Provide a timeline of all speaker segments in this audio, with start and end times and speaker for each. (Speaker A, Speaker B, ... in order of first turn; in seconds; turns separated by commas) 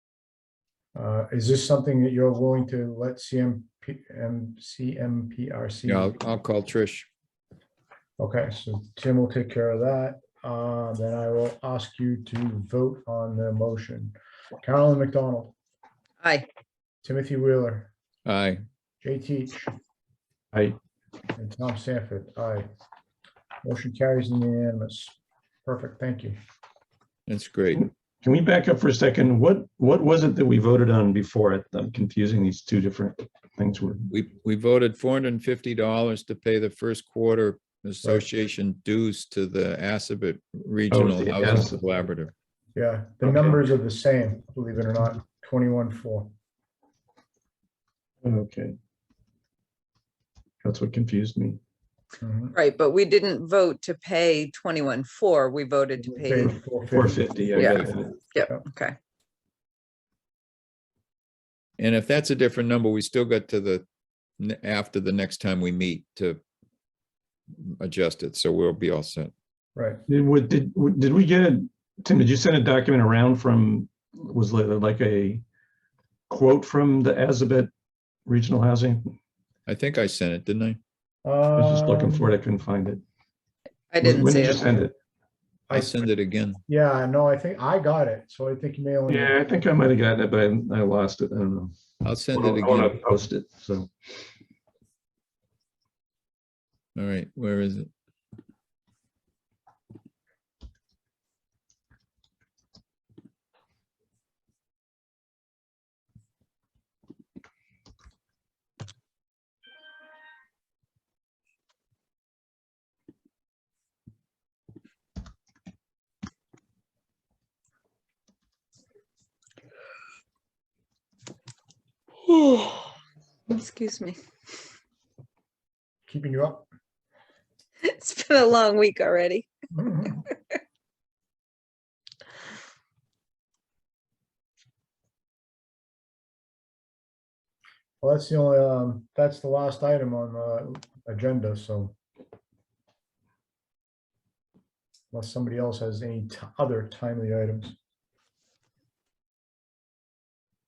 Speaker A: 0.9-6.2, Speaker B: 5.8-7.1, Speaker A: 8.2-15.5, Speaker C: 16.2-16.5, Speaker A: 17.0-17.9, Speaker B: 18.2-18.6, Speaker A: 19.0-19.7, Speaker A: 21.3-22.6, Speaker A: 23.6-26.4, Speaker B: 27.3-27.9, Speaker D: 27.7-34.0, Speaker B: 34.1-42.3, Speaker D: 40.9-41.8, Speaker A: 42.7-46.3, Speaker D: 48.2-48.8, Speaker D: 50.6-51.6, Speaker A: 52.2-52.5, Speaker C: 52.5-56.5, Speaker A: 56.0-58.6, Speaker D: 56.9-58.1, Speaker C: 57.5-59.0, Speaker B: 61.8-63.8, Speaker B: 64.4-66.4, Speaker B: 67.5-69.3, Speaker A: 69.7-70.0, Speaker D: 70.1-75.4, Speaker D: 76.3-77.7, Speaker D: 78.2-79.1, Speaker B: 79.7-80.8, Speaker A: 81.2-82.3, Speaker D: 81.5-83.0, Speaker C: 83.9-84.7, Speaker D: 84.0-84.9, Speaker A: 85.7-86.1, Speaker B: 85.7-86.6, Speaker A: 86.7-89.4, Speaker D: 89.1-91.8, Speaker B: 92.0-93.0, Speaker D: 92.3-93.9, Speaker B: 97.0-97.9, Speaker C: 122.3-122.9, Speaker C: 123.5-124.2, Speaker A: 126.1-126.7, Speaker C: 127.8-129.5, Speaker A: 129.7-130.2, Speaker C: 130.1-130.3, Speaker A: 138.0-141.9, Speaker A: 145.1-147.7